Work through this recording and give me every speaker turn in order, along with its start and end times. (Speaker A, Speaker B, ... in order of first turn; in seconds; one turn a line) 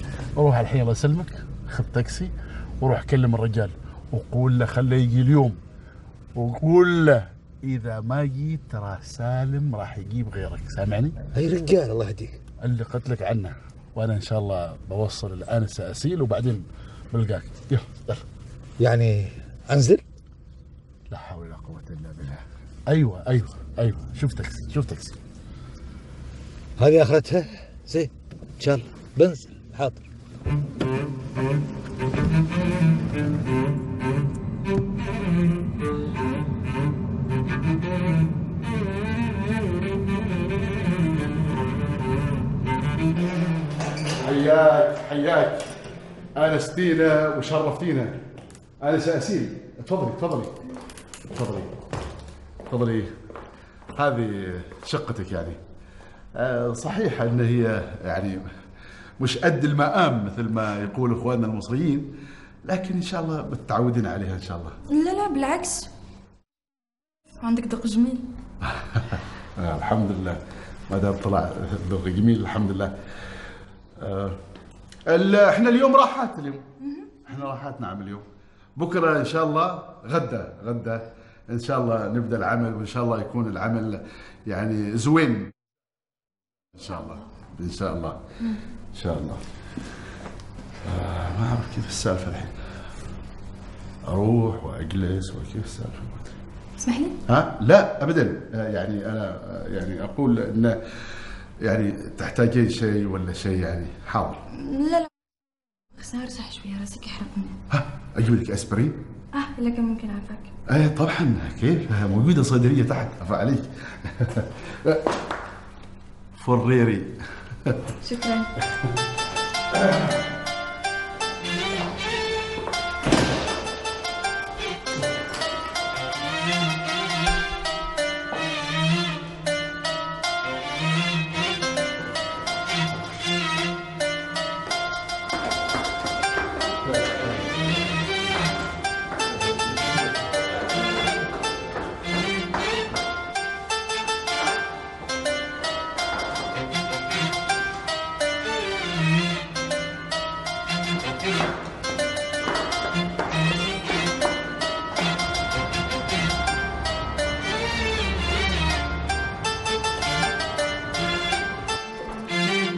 Speaker A: 0.4-5.6
Speaker A: 6.3-11.2
Speaker B: 11.2-12.4
Speaker A: 12.6-18.2
Speaker B: 18.8-20.0
Speaker A: 21.1-25.2
Speaker B: 26.8-30.0
Speaker A: 44.2-45.8
Speaker A: 46.4-48.2
Speaker A: 48.8-50.6
Speaker A: 51.3-51.8
Speaker A: 52.7-53.1
Speaker A: 53.9-55.6
Speaker A: 56.4-58.5
Speaker A: 59.2-62.1
Speaker A: 62.6-64.8
Speaker C: 64.9-65.9
Speaker C: 67.4-68.2
Speaker A: 68.6-73.0
Speaker A: 74.0-74.4
Speaker A: 75.1-76.7
Speaker C: 76.8-77.1
Speaker A: 77.2-78.2
Speaker A: 78.8-85.5
Speaker A: 86.8-88.2
Speaker A: 88.9-89.4
Speaker A: 90.8-92.5
Speaker A: 94.0-96.4
Speaker C: 96.8-97.2
Speaker A: 97.3-101.0
Speaker A: 101.6-104.4
Speaker C: 104.5-105.1
Speaker C: 105.9-107.5
Speaker A: 107.7-109.0
Speaker C: 109.3-110.5
Speaker A: 110.7-115.0
Speaker A: 116.4-117.8
Speaker C: 118.0-118.5
Speaker A: 119.7-120.1
Speaker A: 136.8-137.4